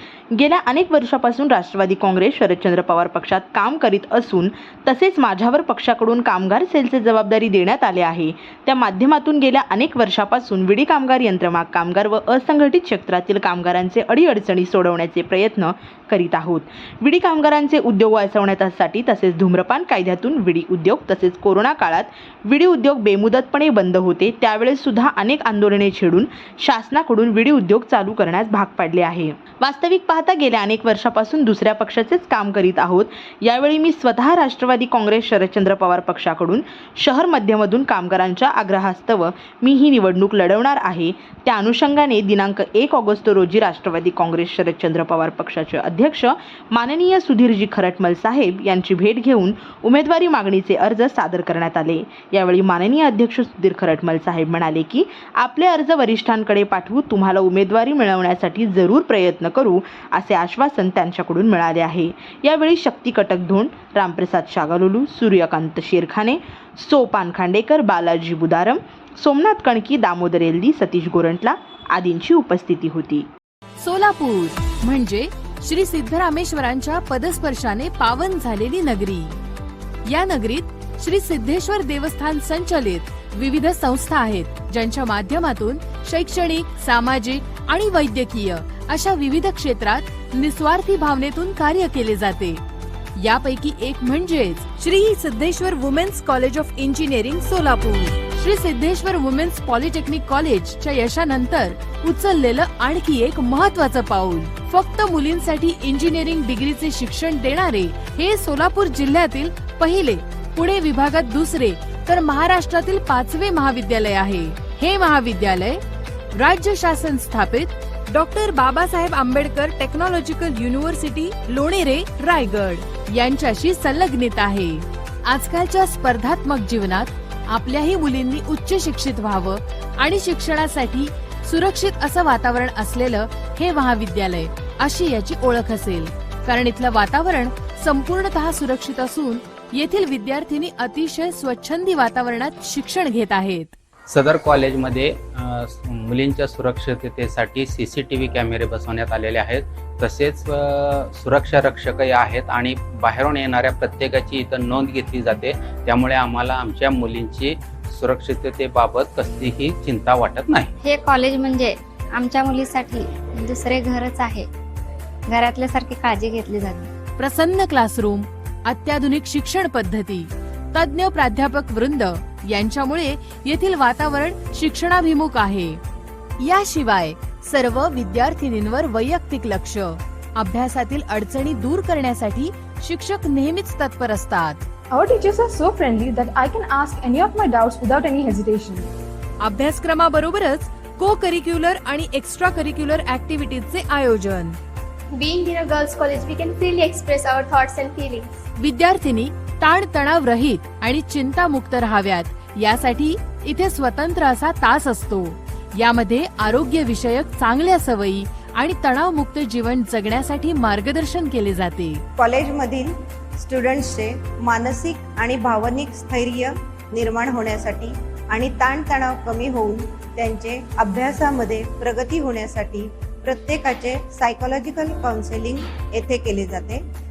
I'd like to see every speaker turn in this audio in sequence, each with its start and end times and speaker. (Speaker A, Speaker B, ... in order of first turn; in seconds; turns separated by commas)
Speaker A: 0.3-73.3, Speaker B: 73.8-79.4, Speaker B: 80.0-92.6, Speaker B: 93.2-115.8, Speaker B: 116.3-143.8, Speaker C: 144.1-160.7, Speaker D: 160.8-164.5, Speaker D: 165.3-166.9, Speaker B: 167.2-175.8, Speaker B: 176.4-184.6, Speaker E: 184.9-188.9, Speaker B: 189.4-194.6, Speaker F: 195.1-198.3, Speaker B: 198.6-212.0, Speaker G: 212.2-226.8